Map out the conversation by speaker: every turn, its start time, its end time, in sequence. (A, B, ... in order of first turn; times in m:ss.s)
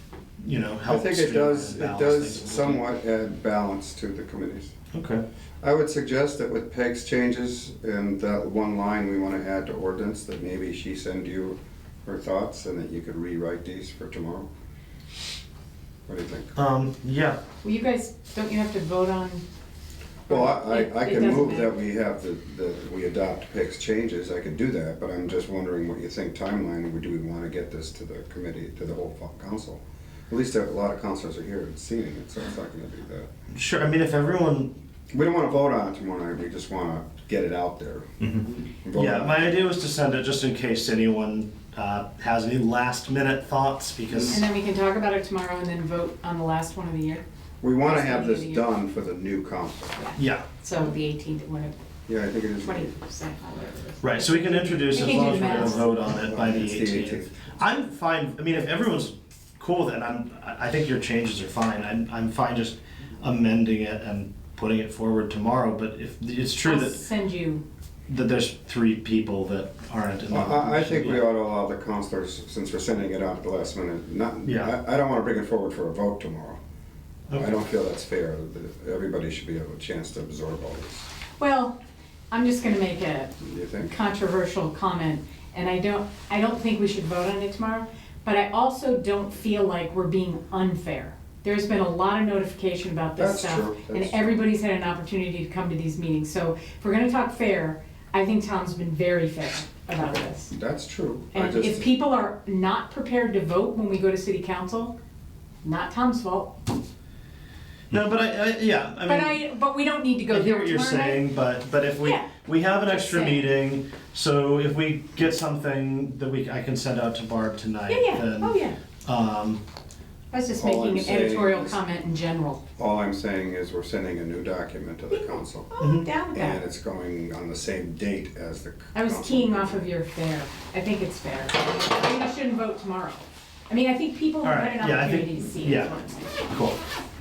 0:00.4-0:02.8 A
0:00.9-0:04.8 B
0:04.9-0:05.2 A
0:05.6-0:14.5 B
0:16.1-0:16.6 B
0:16.6-0:17.4 A
0:17.6-0:19.4 C
0:20.3-0:21.7 C
0:20.3-0:33.3 B
0:33.5-0:34.7 A
0:35.1-0:38.1 B
0:38.8-0:39.6 B
0:38.9-0:44.5 A
0:44.3-0:47.2 C
0:47.6-0:50.0 B
0:47.8-0:48.6 C
0:50.0-0:51.8 C
0:50.2-0:50.5 A
0:52.1-0:52.9 B
0:52.6-0:56.1 C
0:54.0-1:07.0 A
0:56.0-0:57.3 B
1:06.6-1:07.6 C
1:08.1-1:11.3 A
1:10.3-1:16.6 B
1:14.4-1:14.7 A
1:17.3-1:21.1 B
1:21.4-1:21.8 C
1:22.3-1:23.4 C
1:23.4-1:24.0 B
1:23.9-1:40.5 C
1:33.2-1:34.4 B
1:40.0-1:41.9 B
1:41.3-1:45.0 C
1:45.6-1:46.6 C
1:47.9-1:49.4 A
1:49.1-1:51.3 C
1:50.3-1:59.6 A
1:52.0-1:52.3 C
1:52.9-1:53.4 C
1:57.9-1:58.8 C
2:00.3-2:02.6 C
2:00.6-2:01.8 B
2:02.8-2:05.7 B
2:05.1-2:06.6 C
2:05.8-2:06.1 A
2:06.3-2:09.8 B
2:08.9-2:16.5 C
2:14.4-2:15.9 A
2:16.5-2:16.8 A